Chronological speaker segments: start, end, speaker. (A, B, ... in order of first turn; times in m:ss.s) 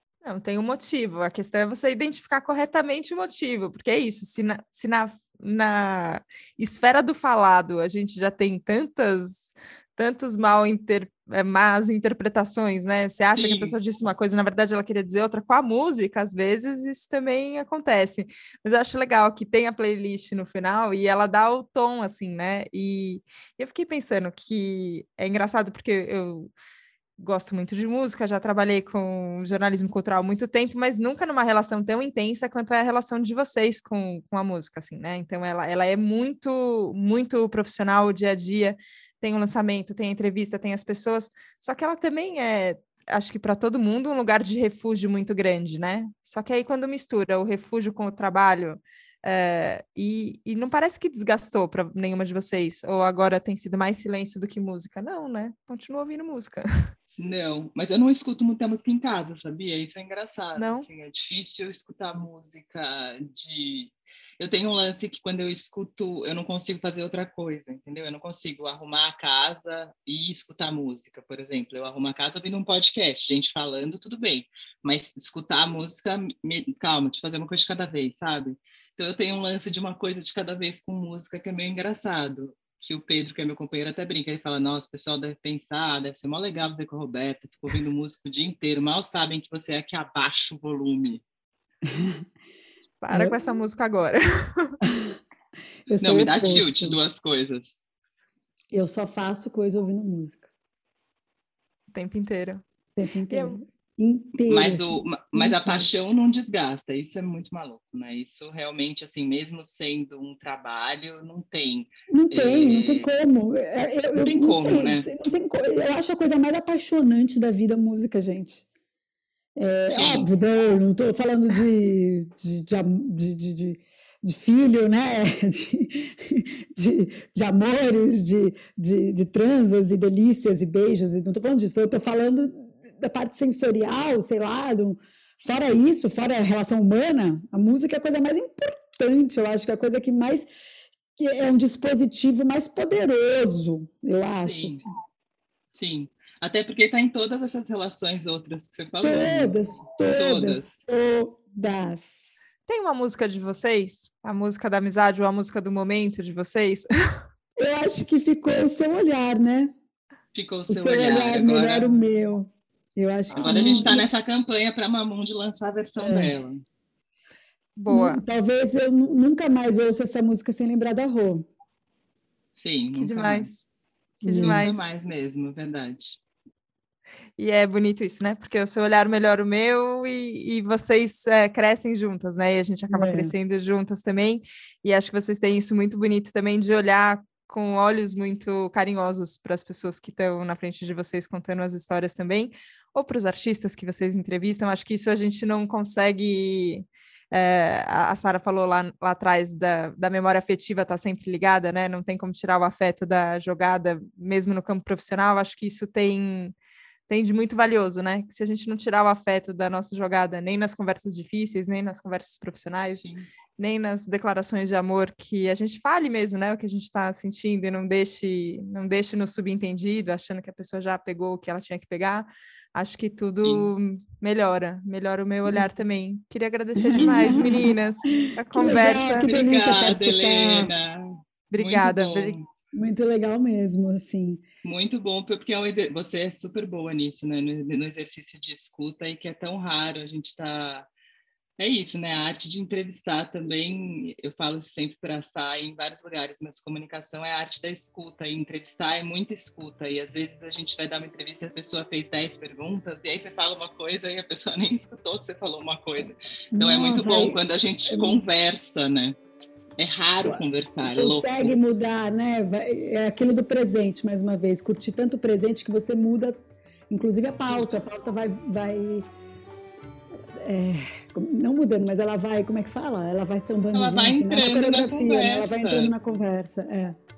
0:00.2-0:26.5 A
0:13.3-0:13.8 B
0:27.2-0:56.6 A
0:57.2-1:31.2 B
1:00.6-1:00.8 A
1:31.9-1:32.2 C
1:33.0-1:34.7 A
1:33.1-1:33.4 C
1:34.8-1:35.1 C
1:35.9-1:37.0 C
1:36.0-1:37.8 B
1:38.7-1:40.5 C
1:41.9-1:42.6 A
1:43.0-1:45.9 C
1:43.3-1:43.6 A
1:44.5-1:53.1 B
1:52.1-1:58.6 C
1:54.2-1:55.1 B
1:59.6-2:20.5 C
1:59.9-2:00.3 B
2:21.2-2:24.9 C
2:24.4-2:24.8 B
2:25.7-2:30.7 B
2:29.0-2:32.4 C
2:32.7-2:36.9 A
2:37.6-2:39.7 C
2:40.3-2:42.0 B
2:40.7-2:44.0 C
2:43.3-2:46.6 B
2:43.4-2:44.0 A
2:46.0-2:46.3 C
2:47.8-2:48.2 A
2:47.9-2:51.4 C
2:52.5-2:53.5 B
2:52.9-2:53.6 A
2:54.2-2:54.6 C
2:54.2-2:54.9 A
2:54.3-2:56.2 B
2:57.4-3:26.5 A
3:02.9-3:03.3 C
3:27.1-3:49.3 A
3:32.9-3:33.3 B
3:43.3-3:43.7 B
3:46.8-3:50.7 C
3:47.0-3:47.4 B
3:49.2-3:52.4 B
3:51.5-3:52.4 A
3:52.7-3:54.4 C
3:54.6-4:00.9 B
4:01.6-4:19.2 B
4:16.5-4:18.2 C
4:19.8-4:21.6 B
4:20.2-4:29.0 C
4:27.5-4:27.7 B
4:30.4-4:36.9 C
4:33.7-4:35.9 B